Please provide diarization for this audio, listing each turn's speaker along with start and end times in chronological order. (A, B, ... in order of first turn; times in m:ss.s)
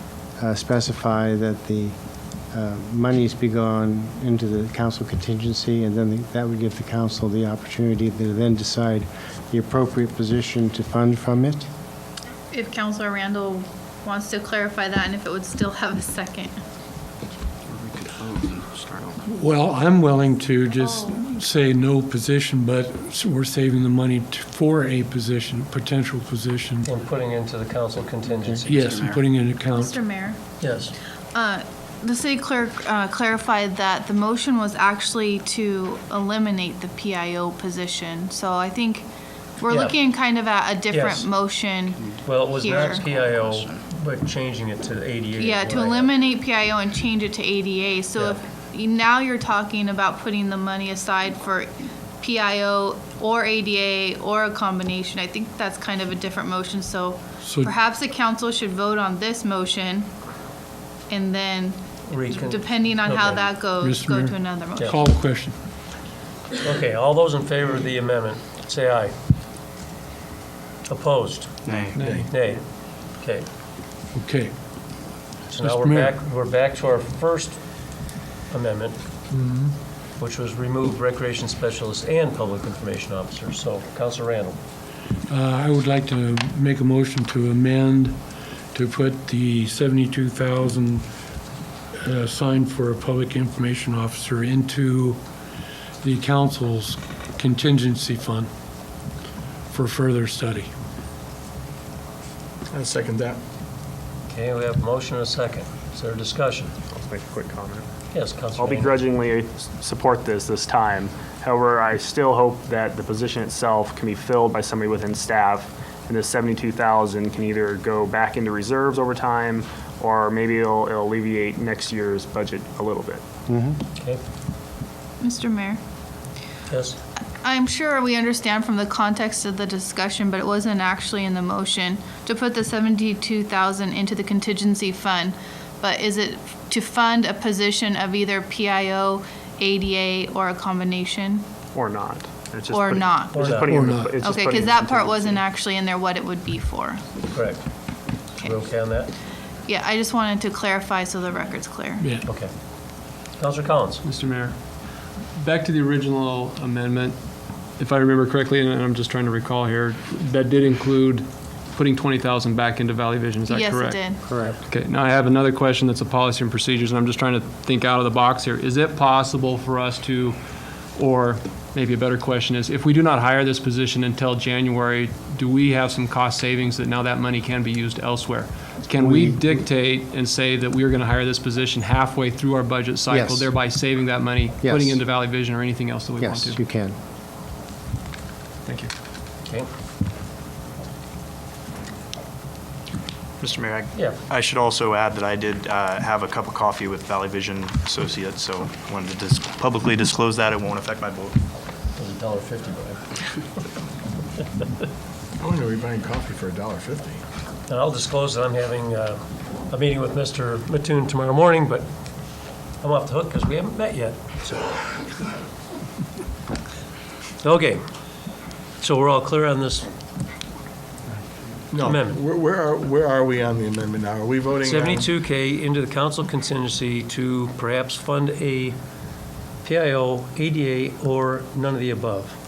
0:00.4-0:01.9 A
0:02.5-0:11.6 A
0:12.5-0:16.6 B
0:17.7-0:19.2 C
0:19.2-0:26.9 D
0:20.7-0:21.2 B
0:26.8-0:29.2 E
0:28.6-0:30.0 D
0:29.7-0:30.4 B
0:30.6-0:30.9 E
0:31.3-0:39.1 B
0:39.6-0:43.0 B
0:39.7-0:40.0 E
0:40.9-0:41.3 E
0:42.2-0:46.2 E
0:45.4-1:00.1 B
0:57.4-0:57.7 D
1:01.1-1:05.2 B
1:02.0-1:03.5 E
1:03.8-1:05.6 D
1:06.6-1:09.1 E
1:10.9-1:11.8 E
1:11.6-1:12.0 C
1:11.9-1:12.3 F
1:11.9-1:12.2 G
1:12.3-1:13.4 E
1:14.1-1:14.5 D
1:15.5-1:17.6 E
1:15.6-1:16.2 D
1:18.5-1:19.0 E
1:19.3-1:19.7 D
1:20.2-1:24.6 E
1:25.3-1:28.2 D
1:28.7-1:31.0 D
1:32.0-1:35.2 D
1:36.0-1:38.5 D
1:39.7-1:40.7 D
1:42.7-1:43.4 F
1:44.3-1:46.7 E
1:46.9-1:47.8 H
1:48.1-1:49.0 E
1:48.6-2:03.2 H
2:03.5-2:03.8 A
2:05.2-2:05.8 B
2:06.7-2:07.0 E
2:07.4-2:21.4 B
2:21.7-2:25.4 H
2:22.7-2:27.0 B
2:23.3-2:23.7 E
2:23.5-2:24.2 D
2:27.3-2:27.6 E
2:28.3-2:29.1 E
2:29.7-2:32.1 B
2:32.0-2:32.3 D
2:32.2-2:32.5 E
2:33.4-2:34.0 E
2:34.0-2:34.6 G
2:35.4-2:37.2 G
2:37.8-2:50.4 G
2:43.4-2:44.2 B
2:44.2-2:44.6 A
2:50.9-3:06.6 G
2:58.9-2:59.6 A
3:03.1-3:03.5 A
3:04.6-3:05.0 A
3:06.2-3:06.9 A
3:08.6-3:08.9 G
3:13.4-3:21.4 C
3:22.0-3:23.0 E
3:25.4-3:27.2 F
3:27.7-3:31.9 E
3:32.8-3:34.8 E
3:37.4-3:37.8 E
3:38.8-3:39.9 E
3:41.7-3:45.1 F
3:41.8-3:42.2 E
3:44.6-3:48.8 E
3:49.6-3:52.3 E